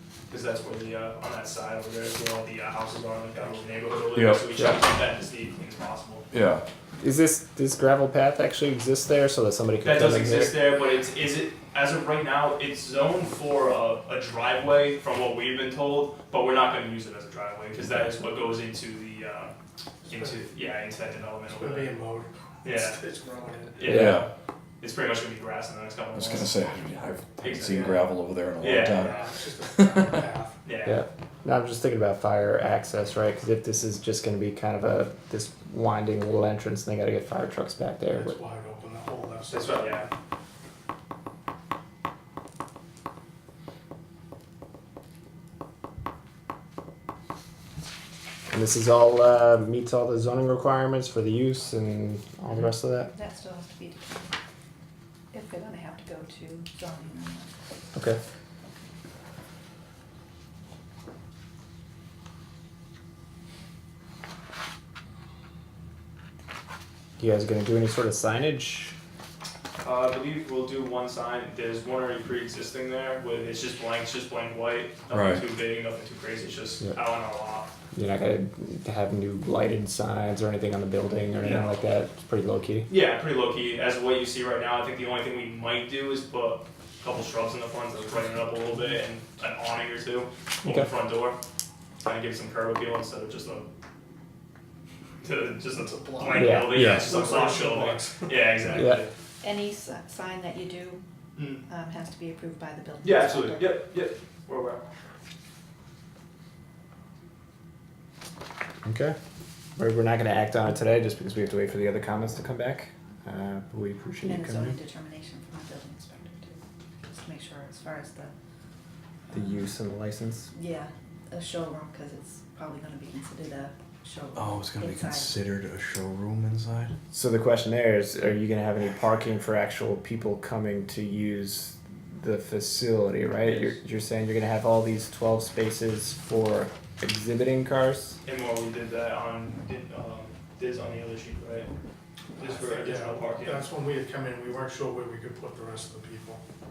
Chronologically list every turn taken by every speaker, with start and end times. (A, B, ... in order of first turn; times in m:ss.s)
0:00.3-0:06.2 A
0:04.1-0:04.6 B
0:06.3-0:06.6 B
0:07.0-0:10.5 C
0:09.8-0:19.5 A
0:20.0-0:21.9 A
0:20.1-0:20.4 D
0:21.5-0:23.9 D
0:22.6-0:23.0 A
0:23.7-0:24.3 A
0:23.8-0:24.1 C
0:23.9-0:24.3 B
0:24.8-0:26.5 A
0:26.1-0:30.3 B
0:27.4-0:29.3 A
0:28.9-0:30.6 D
0:30.6-0:31.0 A
0:30.8-0:38.4 C
0:38.1-0:40.1 D
0:39.5-0:40.1 A
0:48.5-0:53.1 C
0:53.1-0:54.3 E
0:55.3-0:57.5 E
0:57.9-0:58.2 C
1:07.2-1:08.9 C
1:09.8-1:17.7 A
1:15.1-1:15.4 B
1:17.9-1:22.9 C
1:21.4-1:21.8 A
1:22.9-1:31.4 A
1:28.1-1:29.0 D
1:32.0-1:33.7 A
1:35.2-1:39.1 A
1:35.7-1:38.3 D
1:36.3-1:37.1 C
1:38.7-1:39.0 C
1:39.4-1:41.0 E
1:41.4-1:41.6 A
1:41.6-1:43.8 E
1:43.0-1:44.8 A
1:48.8-1:49.2 C
1:49.8-1:54.8 C
1:54.2-1:58.3 E
1:59.3-1:59.7 E
1:59.3-2:00.5 C
2:00.5-2:05.4 E
2:04.3-2:07.0 B
2:07.1-2:18.2 C
2:13.4-2:13.7 A
2:18.2-2:21.7 A
2:22.4-2:23.7 A
2:22.4-2:26.4 D